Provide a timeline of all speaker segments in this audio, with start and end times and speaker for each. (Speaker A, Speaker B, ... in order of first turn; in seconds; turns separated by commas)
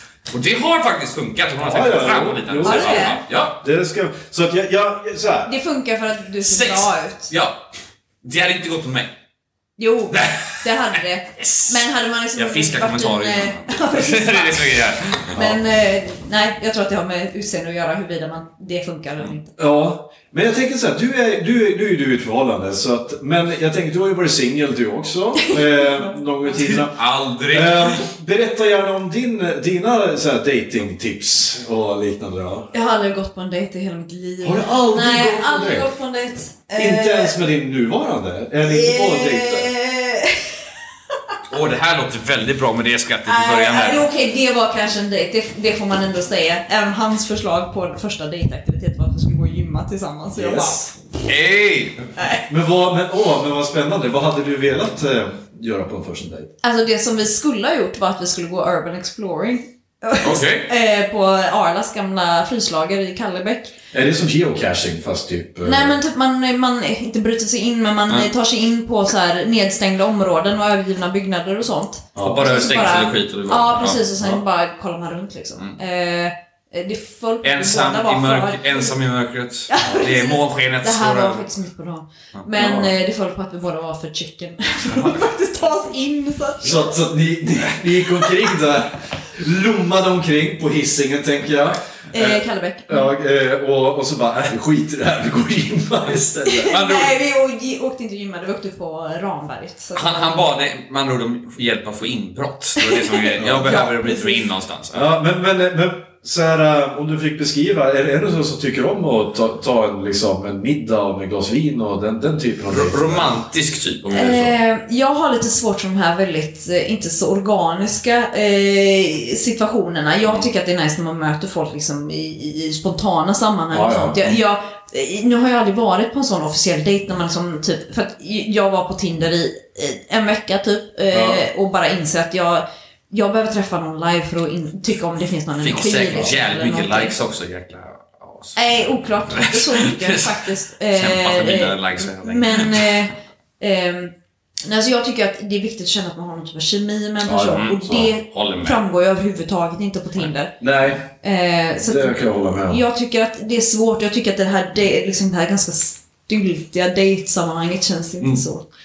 Speaker A: 0.3-3.6, Speaker B: 1.6-5.5, Speaker C: 2.6-3.2, Speaker C: 5.5-7.3, Speaker A: 6.4-7.6, Speaker A: 8.2-9.1, Speaker C: 9.8-19.5, Speaker A: 10.1-10.6, Speaker A: 11.4-11.8, Speaker A: 12.3-15.3, Speaker B: 15.3-15.6, Speaker B: 19.6-32.7, Speaker C: 25.5-26.2, Speaker A: 26.5-28.1, Speaker C: 32.7-37.4, Speaker B: 34.4-35.9, Speaker B: 36.8-39.7, Speaker C: 38.6-40.7, Speaker A: 41.5-44.1, Speaker C: 43.2-50.9, Speaker B: 50.3-50.9, Speaker A: 51.2-52.1, Speaker C: 52.2-52.4, Speaker B: 52.5-56.5, Speaker C: 56.6-63.7, Speaker A: 60.2-60.7, Speaker B: 63.9-66.0, Speaker C: 65.6-78.9, Speaker B: 72.2-72.5, Speaker A: 72.2-74.4, Speaker A: 77.4-81.5, Speaker C: 79.7-86.9, Speaker B: 82.6-82.9, Speaker A: 84.9-85.3, Speaker B: 86.6-96.7, Speaker C: 92.1-93.1, Speaker C: 96.5-100.5, Speaker A: 96.7-97.2, Speaker A: 100.0-105.1, Speaker C: 102.8-104.5, Speaker B: 103.4-103.6, Speaker B: 104.9-113.3, Speaker A: 112.7-114.5, Speaker C: 114.1-137.1, Speaker B: 123.7-124.4, Speaker B: 131.1-131.4, Speaker A: 135.6-143.0, Speaker C: 138.6-144.1, Speaker C: 144.6-150.5, Speaker B: 147.2-148.1, Speaker A: 147.4-148.8, Speaker B: 150.6-151.1, Speaker C: 151.2-158.7, Speaker B: 151.9-152.8